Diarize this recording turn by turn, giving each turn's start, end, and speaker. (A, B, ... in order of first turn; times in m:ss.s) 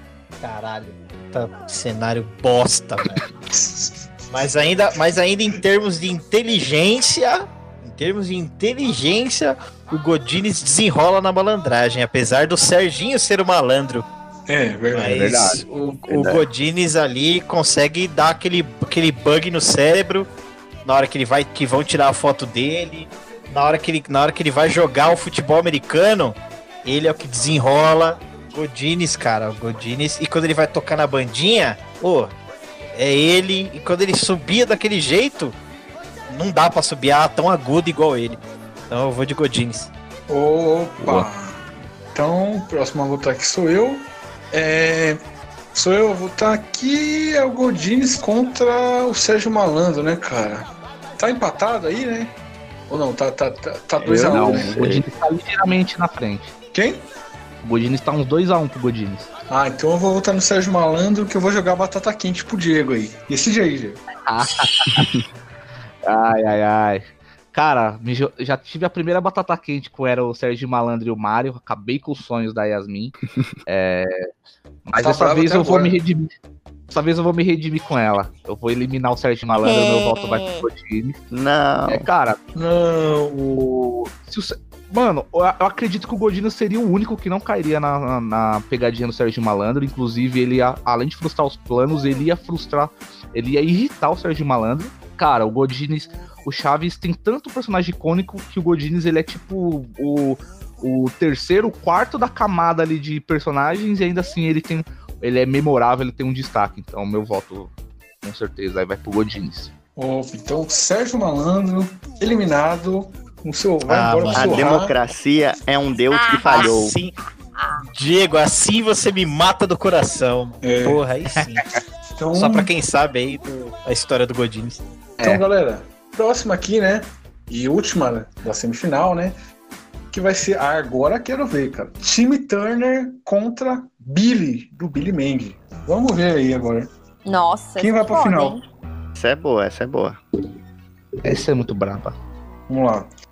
0:00.4-0:03.2 A
0:03.5-0:04.1 B
0:04.3-0:14.1 A
0:14.5-0:16.0 B
0:14.9-0:20.3 A
0:15.1-0:15.6 C
0:16.1-0:16.4 D
0:20.8-0:32.3 A
0:32.9-0:35.6 A
0:36.3-0:39.9 A
0:40.3-0:41.6 B
0:42.1-0:45.2 B
0:45.7-0:52.3 B
0:52.9-0:54.7 B
0:54.0-0:55.0 D
0:54.2-0:56.5 C
0:56.7-0:57.0 B
0:57.6-0:59.3 C
0:59.5-1:04.0 B
1:04.2-1:05.1 C
1:06.0-1:13.1 C
1:13.7-1:14.2 C
1:14.9-1:16.3 C
1:15.0-1:16.0 B
1:16.9-1:21.2 C
1:19.6-1:20.6 E
1:21.3-1:22.0 D
1:21.9-1:22.4 C
1:22.5-1:23.5 B
1:23.5-1:47.7 C
1:48.2-1:49.7 C
1:50.0-1:54.9 B
1:53.8-1:54.7 A
1:54.3-1:56.9 D
1:56.1-1:56.7 E
1:56.5-1:57.1 A
1:57.6-1:57.8 E
1:57.8-2:01.7 A
2:00.6-2:01.0 B
2:02.2-2:02.7 B
2:02.3-2:04.8 A
2:05.2-2:09.4 B
2:10.1-2:16.9 B
2:17.2-2:18.6 E
2:17.8-2:18.6 B
2:19.2-2:20.2 D
2:21.2-2:22.2 C
2:22.7-2:23.1 B